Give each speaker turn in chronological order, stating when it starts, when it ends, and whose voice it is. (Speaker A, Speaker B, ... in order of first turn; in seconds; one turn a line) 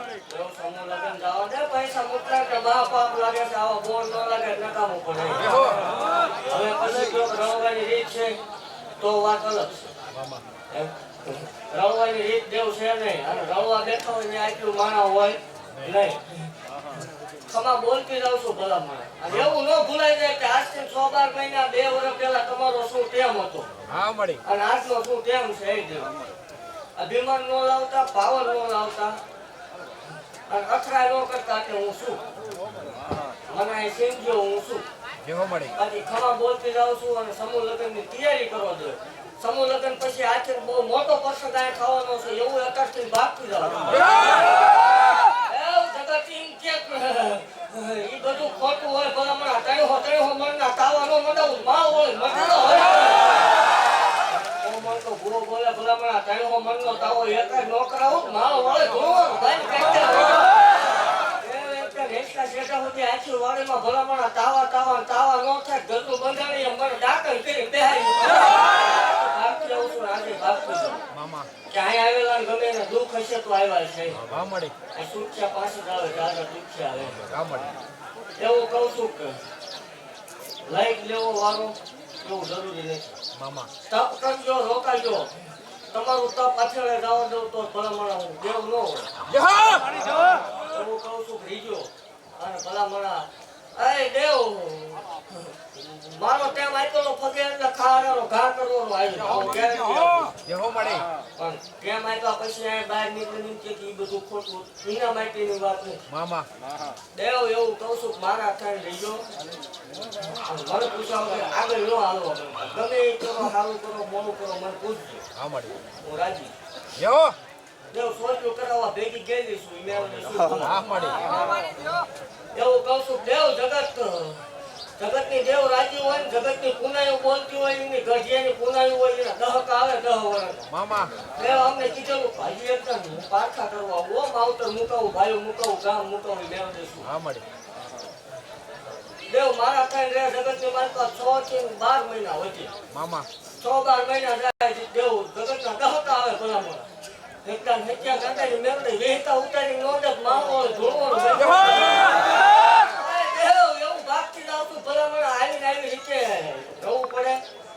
Speaker A: 0.3-5.6
Speaker B: 5.4-5.8
Speaker A: 6.5-8.3
Speaker A: 9.0-9.9
Speaker B: 10.1-10.4
Speaker A: 10.7-23.7
Speaker B: 19.3-19.5
Speaker B: 23.9-24.4
Speaker A: 24.4-26.1
Speaker A: 27.0-29.2
Speaker A: 30.5-32.2
Speaker A: 33.5-34.9
Speaker B: 35.2-35.7
Speaker A: 35.7-44.6
Speaker B: 43.9-44.4
Speaker A: 45.3-53.5
Speaker A: 54.3-60.5
Speaker A: 61.4-71.0
Speaker B: 71.1-71.5
Speaker A: 71.7-74.2
Speaker B: 74.1-74.7
Speaker A: 74.9-77.2
Speaker B: 77.2-77.8
Speaker A: 78.4-79.4
Speaker A: 80.7-83.2
Speaker B: 83.3-83.7
Speaker A: 83.8-85.3
Speaker A: 85.9-89.1
Speaker B: 89.3-89.8
Speaker A: 90.7-100.3
Speaker B: 100.4-101.0
Speaker A: 101.4-106.0
Speaker B: 106.1-106.5
Speaker A: 107.1-109.2
Speaker A: 110.3-115.2
Speaker B: 115.3-115.7
Speaker A: 116.0-116.5
Speaker B: 117.0-117.3
Speaker A: 117.9-120.8
Speaker B: 120.6-121.3
Speaker A: 122.5-124.5
Speaker A: 125.0-130.7
Speaker B: 130.7-131.1
Speaker A: 131.3-137.1
Speaker B: 137.0-137.4
Speaker A: 139.3-142.7
Speaker B: 142.9-143.3
Speaker A: 143.6-146.9
Speaker A: 147.4-157.4
Speaker B: 151.4-152.0